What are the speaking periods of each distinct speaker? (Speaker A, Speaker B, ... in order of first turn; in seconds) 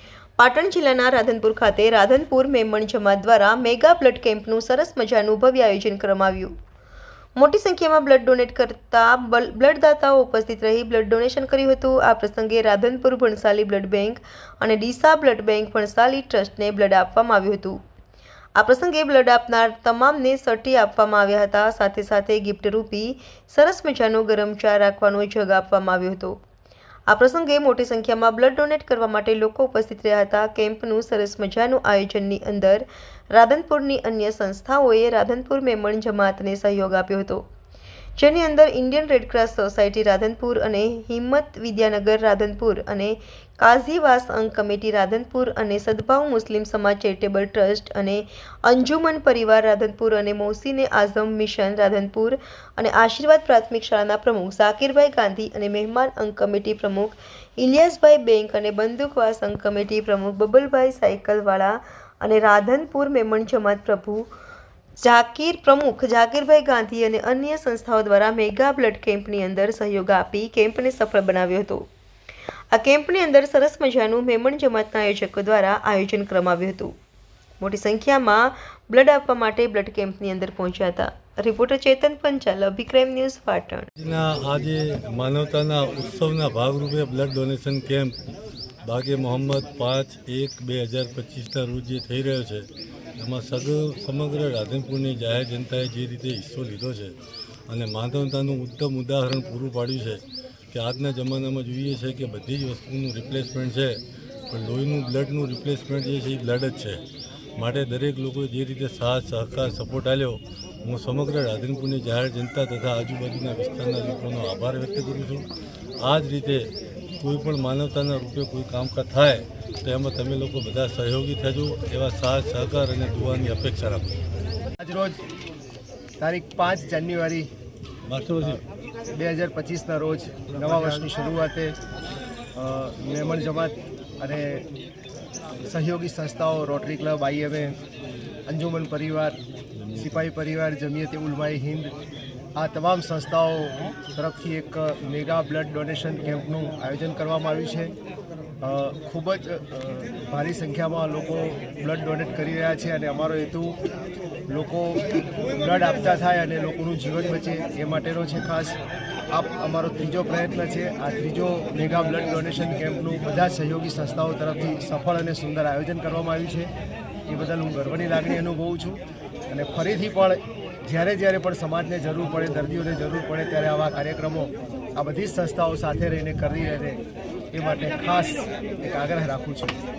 Speaker A: 0.4-6.5, 7.4-17.8, 18.6-26.4, 27.1-37.4, 38.2-64.3, 65.0-71.8, 72.7-76.9, 77.6-83.9
Speaker B: 84.0-88.1, 88.8-92.6, 93.2-97.1, 97.7-104.0, 104.5-107.0, 107.6-115.4, 116.0-116.6, 117.2-124.2, 128.1-128.6, 139.8-140.2
Speaker C: 124.8-125.2, 126.2-127.5, 129.1-131.8, 132.5-134.7, 135.6-137.8, 138.5-139.4, 139.9-141.9, 142.6-147.9, 148.6-153.8, 154.5-158.8, 159.3-166.7, 167.2-179.8